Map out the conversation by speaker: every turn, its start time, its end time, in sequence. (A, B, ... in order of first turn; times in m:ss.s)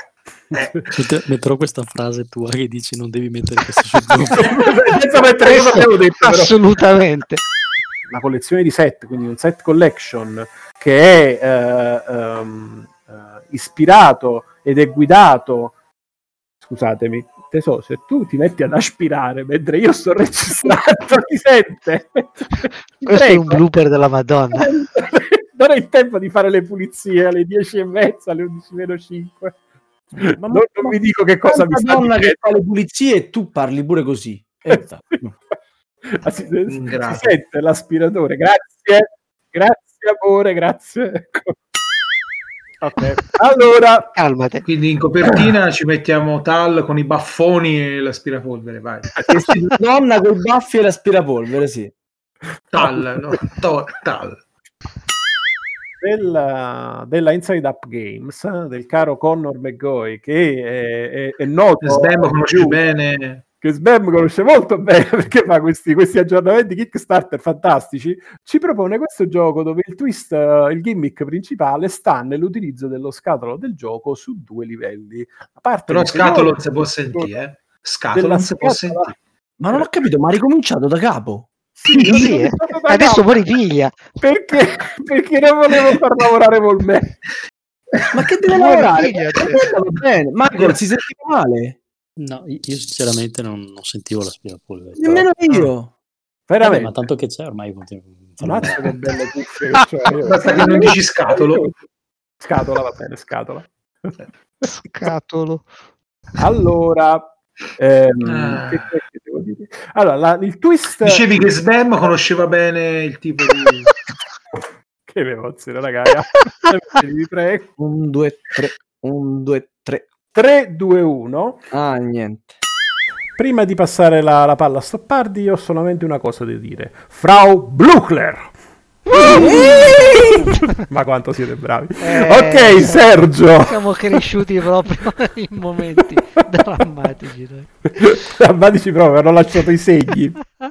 0:00.5-0:00.8 A
0:00.9-0:04.6 B
0:04.3-0:06.6 A
0:05.4-0:07.4 C
0:08.1-0:15.7 A
0:16.6-0:23.6 A
0:23.0-0:24.7 C
0:24.5-0:29.6 A
0:30.1-0:32.5 A
0:30.3-0:35.2 D
0:34.7-0:35.4 A
0:36.1-0:41.5 A
0:36.6-0:37.3 E
0:42.8-0:44.1 A
0:44.2-0:44.6 C
0:44.6-0:49.3 E
0:49.2-0:51.9 D
0:52.7-0:54.4 E
0:52.8-0:53.0 A
0:56.0-1:02.8 A
1:01.8-1:03.4 E
1:03.6-1:16.6 A
1:15.9-1:19.2 E
1:18.1-1:19.1 A
1:19.6-1:21.5 D
1:21.8-1:23.4 A
1:21.9-1:24.0 C
1:24.2-1:27.2 A
1:28.0-1:28.8 E
1:28.1-1:31.8 D
1:28.5-1:29.7 C
1:32.2-1:35.3 B
1:35.0-1:35.9 D
1:36.5-1:37.1 A
1:36.6-1:39.0 B
1:38.4-1:41.7 A
1:40.2-1:41.7 E
1:42.4-1:44.2 A
1:44.6-1:45.7 C
1:46.4-1:52.1 A
1:48.2-1:49.0 E
1:51.0-1:53.9 E
1:55.0-1:57.7 A
1:57.8-2:00.1 D
2:00.3-2:01.6 A
2:01.7-2:02.5 D
2:03.4-2:08.5 A
2:09.1-2:14.2 A
2:09.3-2:09.8 D
2:09.5-2:09.7 C
2:12.0-2:13.0 C
2:13.6-2:17.7 C
2:18.0-2:20.4 A